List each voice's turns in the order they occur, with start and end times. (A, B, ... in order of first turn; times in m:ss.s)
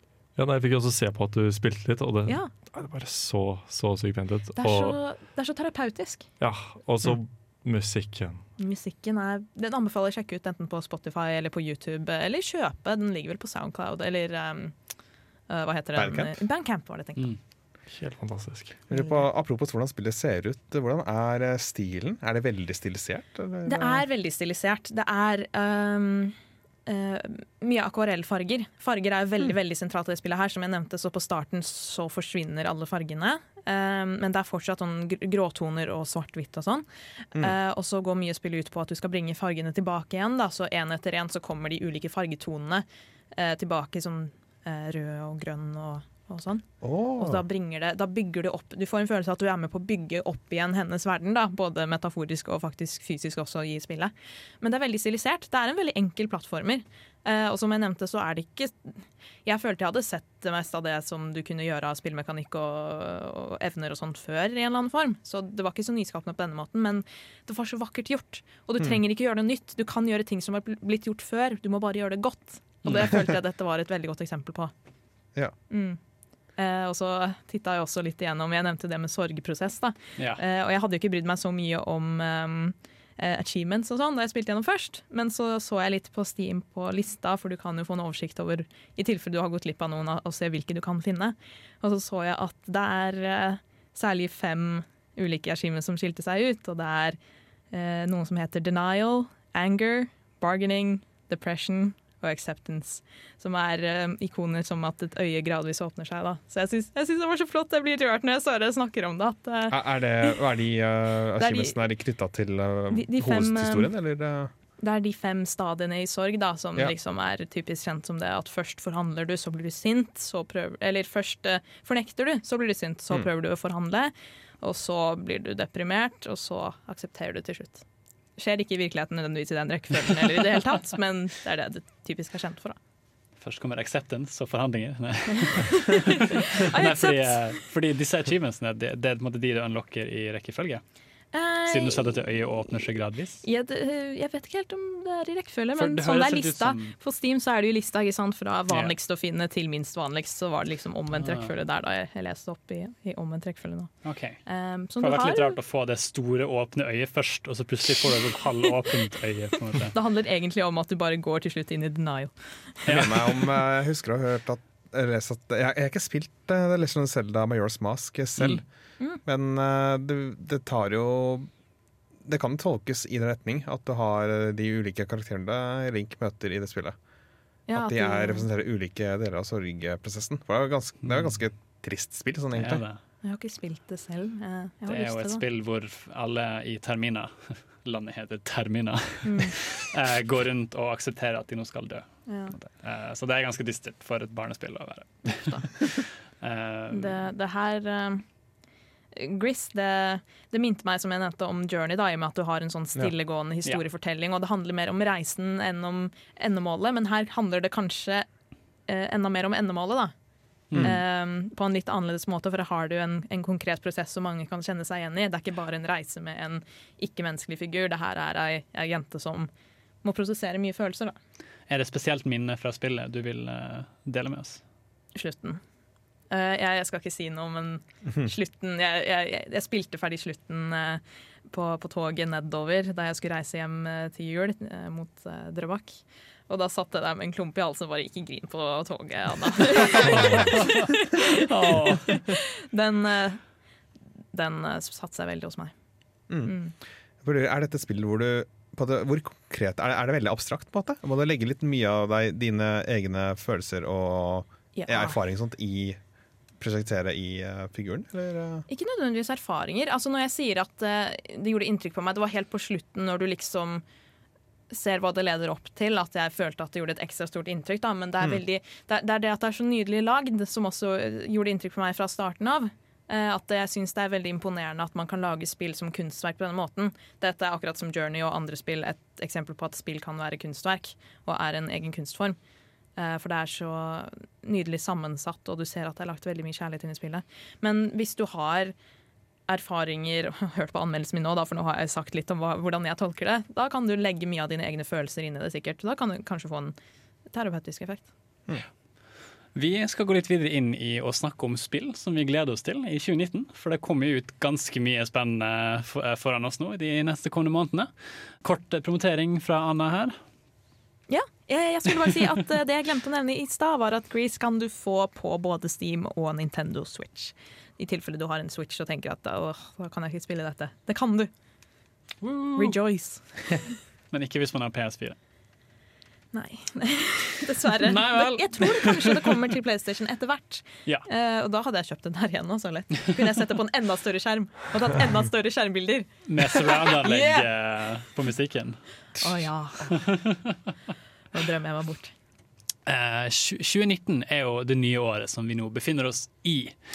0:00.4-0:05.0 A
0:04.6-0:06.3 B
0:06.4-0:08.4 A
0:08.6-0:14.7 B
0:15.5-0:17.3 B
0:16.0-0:16.4 C
0:17.9-0:18.8 A
0:18.9-0:24.0 C
0:18.9-0:19.2 B
0:23.6-0:26.3 B
0:26.9-0:58.9 B
0:46.8-0:47.4 C
0:59.4-1:14.7 B
1:15.7-1:16.0 B
1:16.6-1:37.2 B
1:37.7-1:50.4 B
1:49.7-1:54.5 C
1:51.4-1:51.8 B
1:52.9-1:53.9 B
1:54.8-2:07.8 B
2:08.4-2:12.8 B
2:13.4-2:20.8 D
2:15.6-2:17.4 B
2:21.3-2:22.2 B
2:21.7-2:23.4 D
2:23.4-2:35.6 B
2:25.8-2:26.9 D
2:28.7-2:28.9 D
2:31.2-2:31.5 D
2:34.0-2:34.4 D
2:35.0-2:39.9 D
2:39.9-2:42.3 B
2:42.8-2:43.3 D
2:42.9-2:48.6 C
2:49.2-2:51.5 C
2:52.3-2:57.0 C
2:57.7-2:58.5 B
2:57.7-3:02.8 C
3:01.0-3:01.3 D
3:02.6-3:03.0 D
3:03.2-3:05.4 B
3:04.9-3:17.2 D
3:09.2-3:09.6 B
3:12.3-3:12.5 B
3:16.9-3:18.2 B
3:19.1-3:28.3 B
3:28.9-3:30.1 B
3:30.7-3:31.0 D
3:30.8-3:39.5 B
3:40.0-3:41.2 B
3:41.7-3:44.6 D
3:45.1-3:45.6 B
3:46.3-4:03.4 B
3:59.9-4:00.3 C
4:00.4-4:02.2 D
4:04.3-4:05.7 B
4:06.4-4:06.7 B
4:07.2-4:16.0 C
4:14.8-4:15.2 B
4:16.6-4:18.7 C
4:18.7-4:23.8 B
4:24.7-4:42.4 B
4:43.0-4:48.7 B
4:49.5-4:56.7 B
4:57.3-4:58.1 B
4:59.6-5:07.9 D
5:08.4-5:10.2 D
5:11.1-5:21.3 B
5:22.2-5:22.7 D
5:22.6-5:23.7 B
5:24.1-5:25.2 D
5:26.3-5:37.4 B
5:27.8-5:29.4 D
5:36.3-5:38.8 D
5:39.2-5:40.0 B
5:39.9-5:40.6 D
5:41.3-5:42.1 B
5:42.9-5:46.7 D